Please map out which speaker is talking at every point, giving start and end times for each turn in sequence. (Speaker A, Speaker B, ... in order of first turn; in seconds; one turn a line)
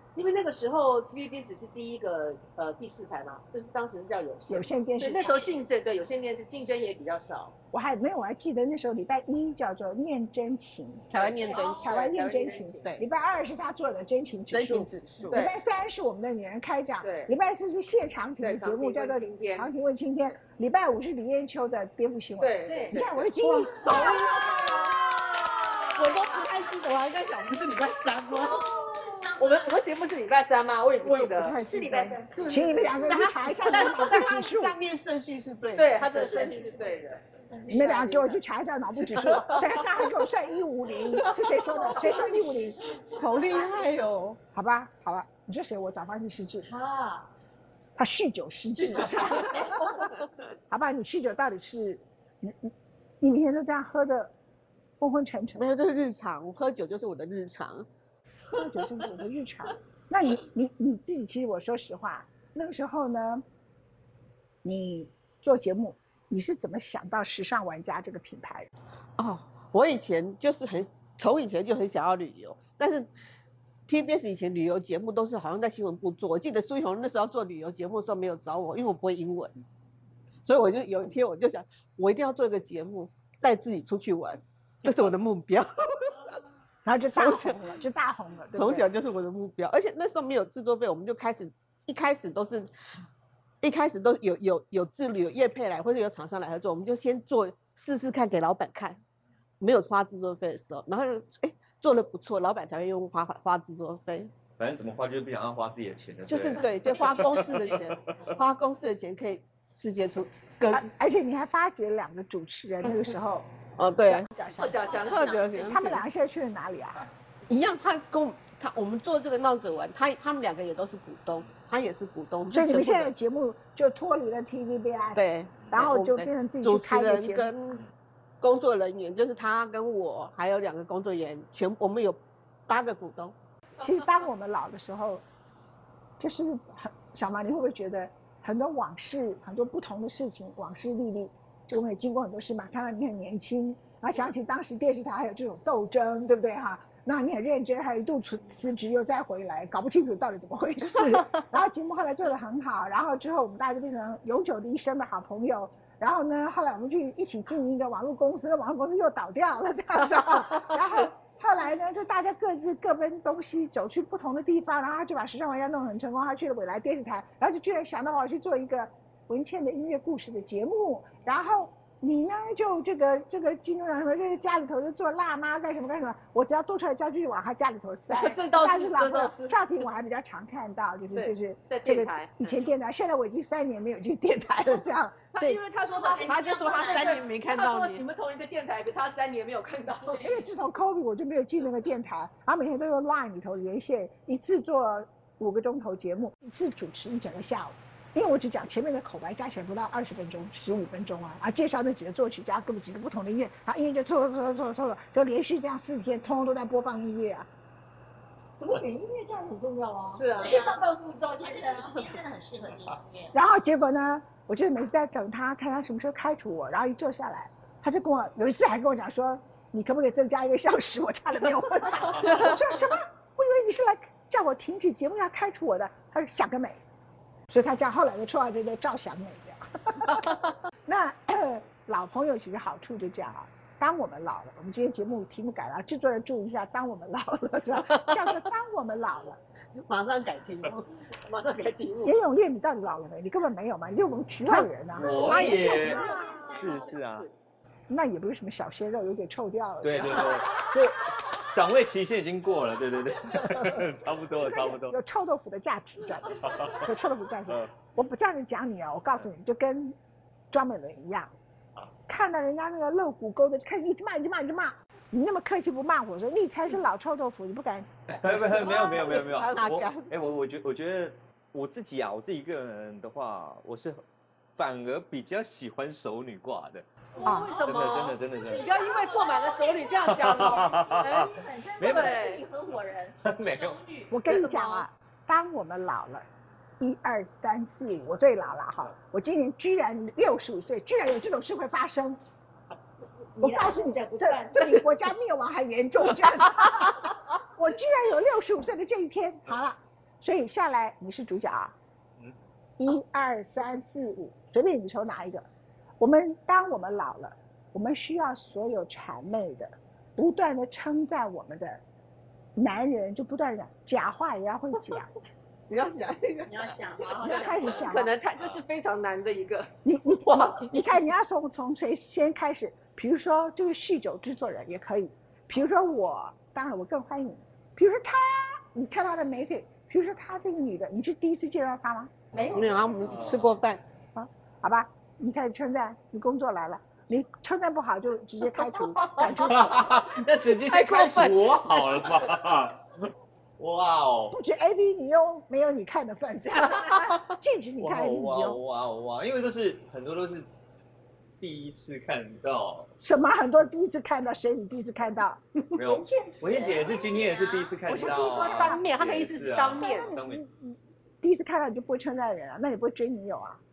Speaker A: 0.1-7.5
Speaker B: 4.5-5.4
Speaker C: 5.2-5.6
Speaker B: 7.7-24.8
Speaker D: 11.1-11.9
Speaker A: 11.1-12.9
Speaker D: 14.5-15.4
Speaker A: 15.3-15.5
Speaker A: 17.0-17.3
Speaker A: 18.4-19.7
Speaker A: 22.4-23.2
Speaker E: 22.7-23.0
Speaker D: 23.4-28.7
Speaker E: 23.8-24.5
Speaker A: 26.0-26.3
Speaker E: 28.3-29.3
Speaker C: 28.3-29.7
Speaker A: 29.4-31.6
Speaker B: 31.1-34.8
Speaker D: 31.1-31.6
Speaker E: 31.6-32.5
Speaker A: 32.3-33.1
Speaker D: 32.5-36.5
Speaker A: 35.7-38.4
Speaker E: 36.0-37.8
Speaker B: 37.7-42.9
Speaker A: 39.1-39.6
Speaker E: 41.5-44.0
Speaker D: 43.1-44.4
Speaker B: 44.5-46.7
Speaker E: 46.7-47.3
Speaker B: 48.0-50.0
Speaker B: 50.7-54.3
Speaker B: 55.0-55.7
Speaker D: 55.5-57.9
Speaker B: 58.5-63.4
Speaker D: 58.6-59.1
Speaker B: 64.6-68.7
Speaker D: 69.2-73.1
Speaker D: 73.9-79.5
Speaker D: 80.4-86.3
Speaker B: 86.8-88.9
Speaker D: 87.1-87.6
Speaker D: 88.5-92.7
Speaker D: 93.6-99.0
Speaker D: 99.6-104.3
Speaker F: 104.6-108.3
Speaker D: 106.3-110.8
Speaker B: 110.7-113.5
Speaker D: 112.8-113.1
Speaker D: 113.8-114.3
Speaker B: 114.0-117.1
Speaker A: 114.5-115.8
Speaker D: 114.9-116.0
Speaker D: 117.5-123.1
Speaker B: 122.5-127.5
Speaker D: 125.1-127.8
Speaker D: 128.4-133.3
Speaker B: 133.8-135.2
Speaker B: 136.2-185.6
Speaker A: 178.1-179.7
Speaker A: 181.1-182.7
Speaker A: 185.3-190.3
Speaker C: 185.8-187.2
Speaker D: 186.2-188.1
Speaker C: 190.1-190.4
Speaker B: 190.2-207.5
Speaker E: 208.6-212.2
Speaker A: 210.2-210.7
Speaker C: 210.3-213.3
Speaker B: 213.3-226.8
Speaker D: 222.2-222.5
Speaker B: 227.5-239.4
Speaker D: 239.8-240.9
Speaker A: 241.2-242.1
Speaker B: 242.0-246.1
Speaker F: 244.9-247.3
Speaker A: 245.0-247.3
Speaker E: 245.2-246.8
Speaker C: 245.2-246.7
Speaker B: 247.9-250.5
Speaker F: 249.8-254.9
Speaker B: 254.4-260.0
Speaker F: 256.3-256.9
Speaker B: 260.5-261.4
Speaker B: 262.1-268.9
Speaker F: 268.1-274.0
Speaker D: 268.4-270.1
Speaker F: 274.5-276.9
Speaker A: 277.1-282.4
Speaker E: 277.2-283.2
Speaker B: 277.2-277.6
Speaker F: 277.6-278.7
Speaker F: 280.1-282.2
Speaker F: 283.2-283.8
Speaker C: 283.5-284.1
Speaker B: 284.1-286.3
Speaker A: 284.1-284.9
Speaker B: 286.8-292.2
Speaker E: 293.4-294.8
Speaker B: 293.4-301.7
Speaker B: 302.8-305.4
Speaker B: 306.0-311.8
Speaker B: 312.6-315.1
Speaker D: 315.7-316.8
Speaker C: 316.5-317.8
Speaker E: 316.6-317.6
Speaker B: 317.2-318.1
Speaker A: 317.5-320.9
Speaker B: 319.8-332.1
Speaker E: 332.3-333.2
Speaker D: 332.5-333.8
Speaker F: 333.0-333.5
Speaker B: 334.1-339.9
Speaker D: 338.6-339.2
Speaker F: 339.2-344.4
Speaker A: 340.4-342.4
Speaker B: 344.3-348.6
Speaker F: 347.8-350.5
Speaker F: 351.4-352.9
Speaker B: 353.0-355.4
Speaker F: 355.8-360.4
Speaker E: 355.8-357.5
Speaker C: 356.7-357.8
Speaker B: 357.9-358.8
Speaker A: 357.9-360.1
Speaker B: 359.7-363.6